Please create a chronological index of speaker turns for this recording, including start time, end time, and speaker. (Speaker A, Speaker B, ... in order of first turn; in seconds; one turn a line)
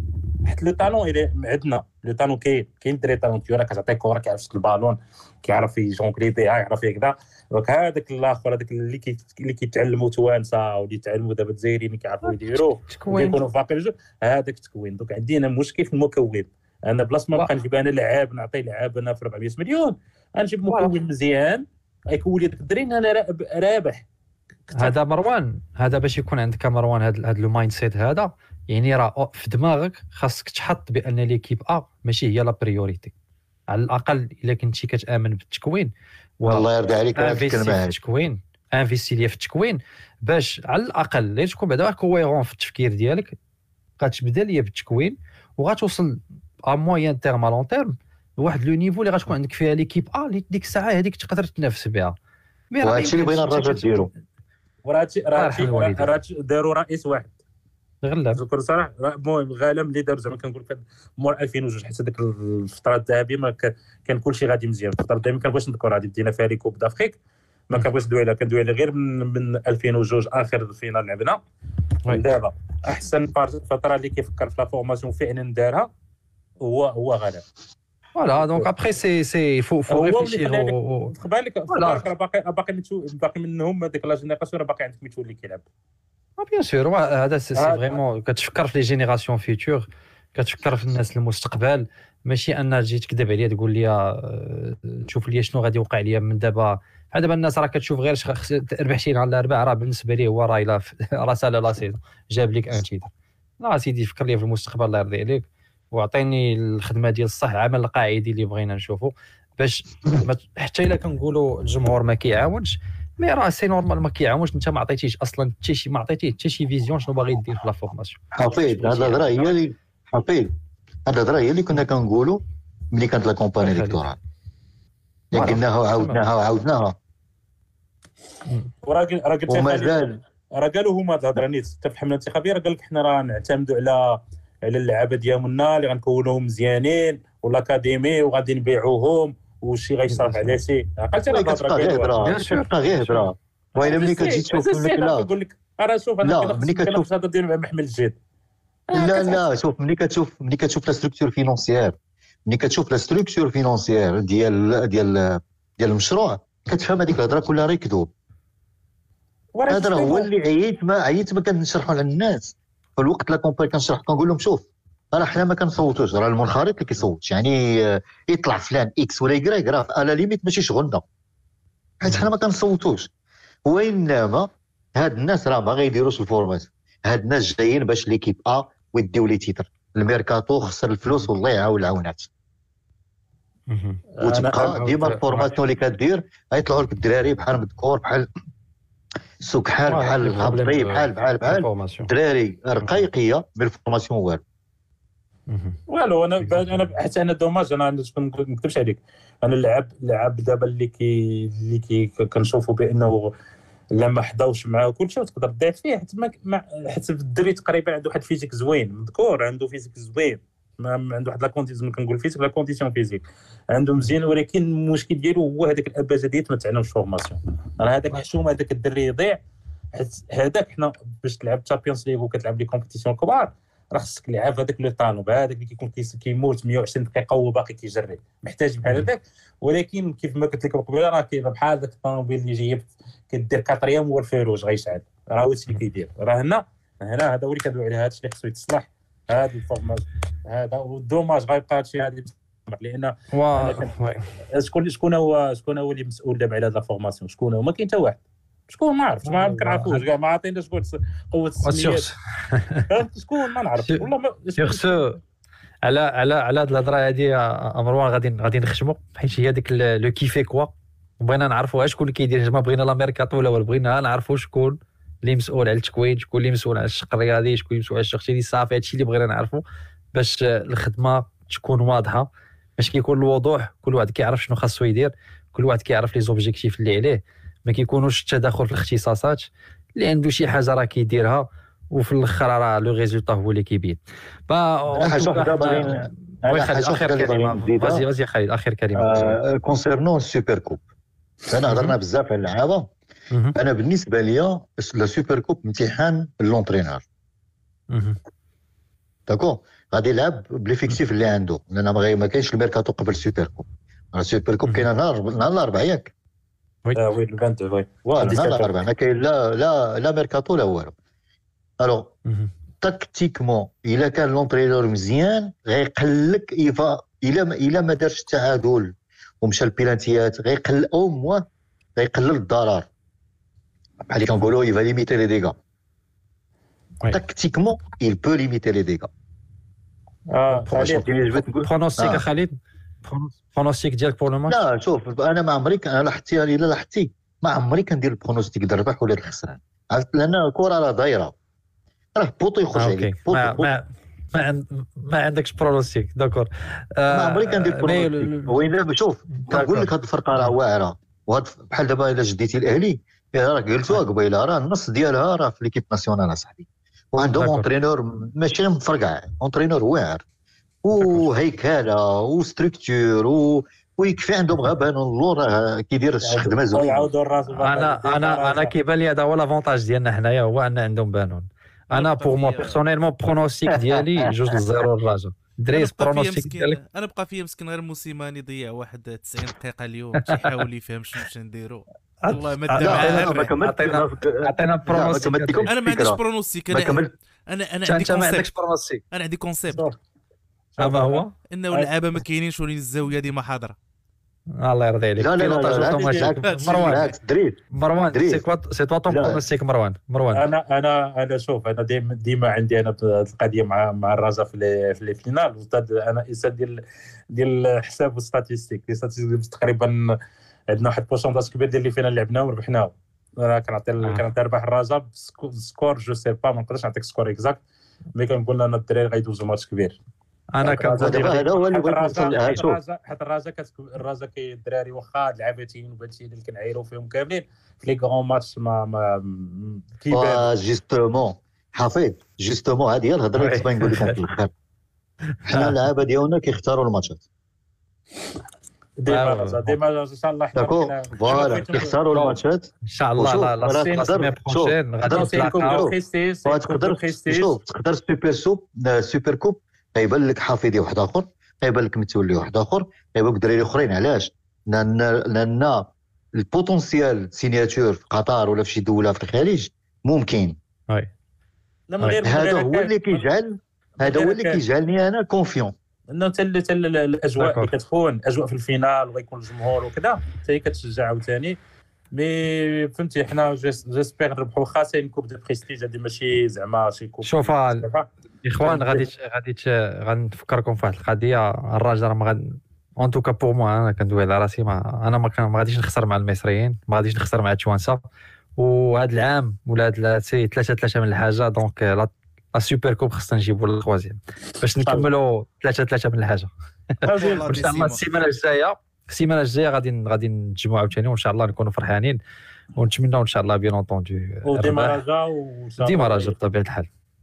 Speaker A: 0.5-24.0
Speaker B: 12.2-13.4
Speaker B: 24.8-33.1
Speaker B: 33.7-43.4
Speaker C: 36.5-38.0
Speaker B: 44.0-52.2
Speaker B: 52.7-54.1
Speaker C: 52.8-54.1
Speaker A: 54.8-57.4
Speaker B: 55.4-56.1
Speaker B: 58.0-58.4
Speaker A: 58.4-67.2
Speaker A: 67.7-71.4
Speaker A: 72.1-75.9
Speaker A: 76.6-77.4
Speaker B: 78.2-81.1
Speaker A: 79.9-85.7
Speaker B: 81.7-82.0
Speaker B: 86.4-119.4
Speaker A: 87.6-87.9
Speaker C: 118.3-120.5
Speaker C: 121.1-124.2
Speaker B: 123.6-124.0
Speaker C: 125.3-127.0
Speaker B: 125.3-126.2
Speaker A: 128.8-142.2
Speaker C: 129.5-130.2
Speaker B: 140.1-140.5
Speaker C: 141.3-145.3
Speaker B: 142.2-143.3
Speaker A: 143.8-148.2
Speaker C: 146.2-147.1
Speaker A: 148.9-149.4
Speaker C: 148.9-151.9
Speaker C: 152.5-158.1
Speaker A: 159.6-160.3
Speaker C: 159.7-171.0
Speaker C: 172.0-173.1
Speaker C: 173.7-182.3
Speaker B: 183.7-184.0
Speaker A: 184.2-185.4
Speaker C: 184.2-188.3
Speaker C: 189.4-194.4
Speaker B: 189.9-192.1
Speaker B: 195.5-195.8
Speaker A: 195.9-203.3
Speaker B: 196.4-196.9
Speaker A: 203.9-219.4
Speaker A: 219.9-243.9
Speaker B: 243.3-244.2
Speaker A: 244.5-252.1
Speaker B: 249.2-250.1
Speaker B: 251.6-252.9
Speaker A: 252.9-255.0
Speaker B: 253.8-255.2
Speaker B: 255.8-269.6
Speaker B: 270.1-289.4
Speaker C: 285.0-288.1
Speaker C: 288.9-290.8
Speaker C: 291.5-292.9
Speaker B: 291.7-291.9
Speaker C: 293.6-297.0
Speaker B: 297.9-298.2
Speaker C: 299.3-306.1
Speaker A: 306.9-308.7
Speaker C: 308.2-310.9
Speaker C: 311.8-312.1
Speaker B: 312.3-312.5
Speaker C: 312.8-321.4
Speaker C: 322.0-322.9
Speaker C: 324.1-325.6
Speaker C: 327.1-329.1
Speaker A: 330.3-331.0
Speaker C: 330.7-332.2
Speaker B: 331.3-332.5
Speaker B: 333.1-334.6
Speaker C: 334.5-341.4
Speaker C: 342.1-343.7
Speaker B: 342.7-348.6
Speaker C: 347.1-360.2
Speaker B: 349.3-350.5
Speaker B: 357.2-357.7
Speaker C: 360.8-367.1
Speaker B: 361.0-361.3
Speaker A: 366.2-368.7
Speaker B: 367.6-376.8
Speaker D: 371.9-372.8
Speaker C: 373.7-374.1
Speaker D: 375.7-383.6
Speaker B: 382.2-385.7
Speaker C: 382.8-387.1
Speaker D: 385.7-388.5
Speaker B: 387.9-389.0
Speaker D: 389.1-389.9
Speaker A: 389.7-389.9
Speaker A: 390.8-391.9
Speaker B: 390.8-391.4
Speaker D: 391.5-393.8
Speaker B: 394.6-397.0
Speaker C: 395.2-397.6
Speaker A: 395.7-397.0
Speaker D: 396.4-396.9
Speaker B: 397.7-400.4
Speaker C: 398.1-398.4
Speaker C: 399.1-399.4
Speaker A: 400.3-406.8
Speaker A: 407.3-410.1
Speaker A: 410.7-417.6
Speaker A: 418.1-420.0
Speaker B: 420.5-421.4
Speaker A: 420.6-430.5
Speaker C: 420.9-422.8
Speaker C: 430.1-434.5
Speaker B: 433.4-434.2
Speaker C: 435.4-437.2
Speaker B: 435.5-435.7
Speaker A: 439.0-442.3
Speaker B: 439.1-439.8
Speaker C: 440.6-460.6
Speaker B: 442.9-445.8
Speaker A: 443.7-444.1
Speaker A: 445.1-447.5
Speaker A: 461.9-463.2
Speaker C: 462.2-465.7
Speaker A: 464.0-464.6
Speaker A: 466.1-471.6
Speaker B: 467.4-467.7
Speaker A: 472.1-478.1
Speaker B: 477.2-477.9
Speaker B: 478.4-488.0
Speaker A: 478.6-479.0
Speaker B: 488.6-502.2
Speaker A: 494.8-495.1
Speaker A: 497.0-497.7
Speaker D: 497.1-498.1
Speaker B: 502.8-505.0
Speaker A: 504.5-506.4
Speaker B: 505.8-506.9